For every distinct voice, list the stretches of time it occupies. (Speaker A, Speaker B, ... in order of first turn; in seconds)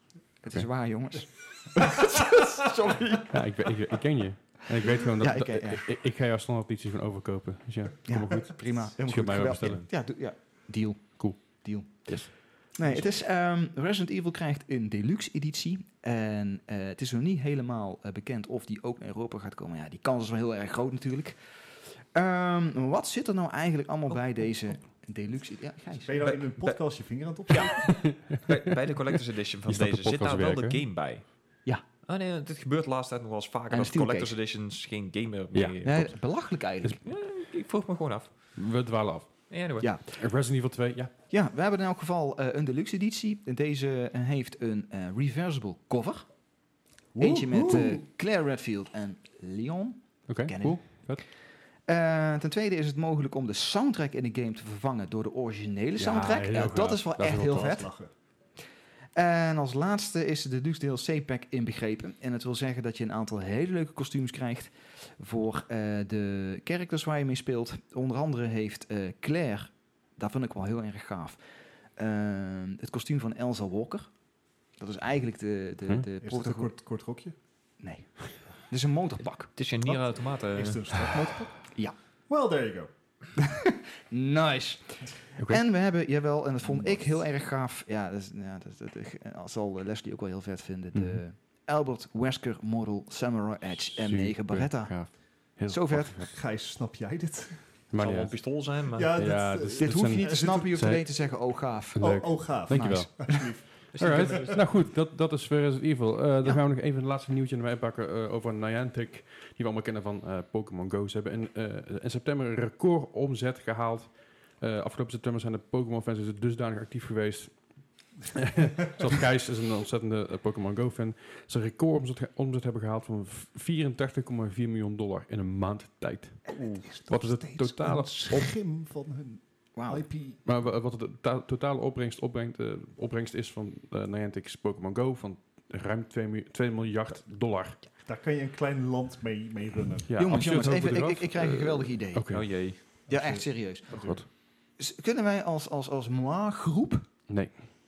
Speaker A: 0.4-3.7, 5.1-5.9, 8.1-26.2, 33.7-34.3, 35.8-37.0, 39.8-40.2, 41.3-46.3, 47.2-57.9, 59.1-71.4, 72.0-74.2, 74.7-76.7, 77.8-79.5, 83.4-96.2, 99.8-103.5, 129.8-130.1, 140.2-147.1
Speaker B: 3.3-9.9, 11.2-12.3, 27.9-28.5, 29.7-30.8, 38.5-41.1, 50.3-51.2, 56.0-57.7, 90.9-91.2, 94.0-96.3, 97.9-98.6, 99.2-101.1, 101.9-117.8, 118.3-128.6, 130.4-137.8, 140.1-142.7, 143.9-144.2, 147.3-147.7
Speaker C: 26.0-28.0, 47.1-48.0, 57.4-58.1, 76.2-77.3, 79.8-81.7, 82.3-82.9, 96.1-97.8, 98.9-100.8, 102.0-104.6, 126.5-130.4, 138.0-140.1, 143.1-144.2
Speaker D: 26.2-26.8, 27.5-36.2, 37.0-38.6, 39.5-39.9, 79.5-81.1, 98.0-99.2, 103.9-104.7, 142.3-142.8